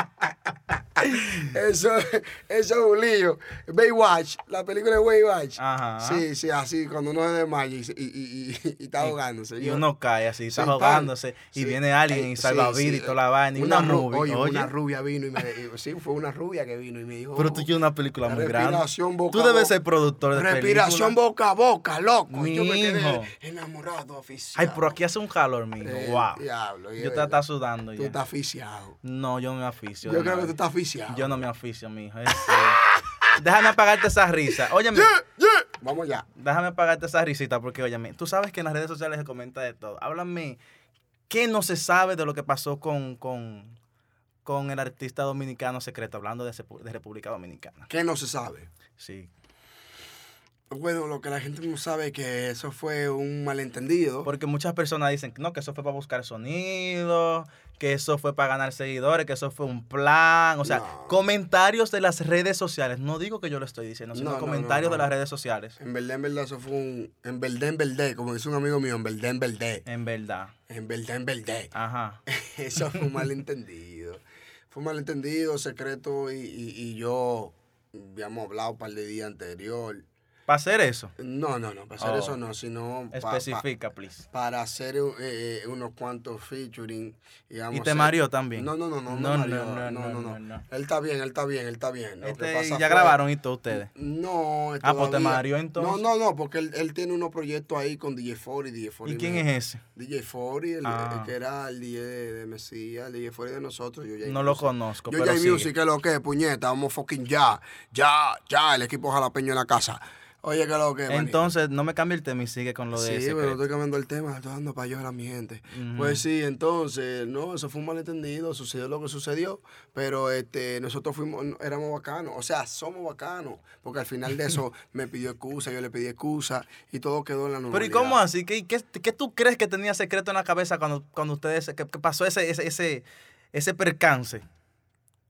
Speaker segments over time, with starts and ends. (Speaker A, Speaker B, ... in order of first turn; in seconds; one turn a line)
Speaker A: 0.9-9.8
Speaker B: 5.6-6.2
Speaker B: 9.0-14.7
Speaker A: 10.5-17.7
Speaker B: 17.4-21.1
Speaker A: 18.2-19.7
Speaker A: 20.3-24.9
Speaker B: 22.3-23.3
Speaker B: 24.6-26.4
Speaker A: 25.8-27.4
Speaker B: 27.0-28.1
Speaker A: 28.0-29.0
Speaker B: 29.0-30.6
Speaker A: 30.0-31.3
Speaker B: 31.1-32.8
Speaker B: 33.3-35.2
Speaker A: 34.9-36.3
Speaker B: 36.4-40.6
Speaker B: 41.3-43.8
Speaker B: 44.4-47.9
Speaker A: 47.9-48.7
Speaker B: 49.0-49.3
Speaker A: 50.7-54.3
Speaker B: 54.2-65.8
Speaker A: 60.6-61.2
Speaker A: 64.1-65.1
Speaker A: 65.8-69.8
Speaker B: 69.8-70.5
Speaker A: 70.7-71.7
Speaker B: 71.7-72.2
Speaker A: 72.2-80.0
Speaker B: 80.5-81.1
Speaker A: 81.2-83.6
Speaker B: 82.0-82.4
Speaker B: 83.1-84.3
Speaker A: 84.3-93.2
Speaker B: 87.7-90.6
Speaker B: 92.2-93.9
Speaker A: 93.7-111.5
Speaker B: 94.8-96.0
Speaker B: 99.0-99.8
Speaker B: 100.8-101.3
Speaker B: 104.2-105.7
Speaker B: 111.1-113.6
Speaker A: 112.9-128.2
Speaker B: 115.7-116.2
Speaker B: 127.7-134.4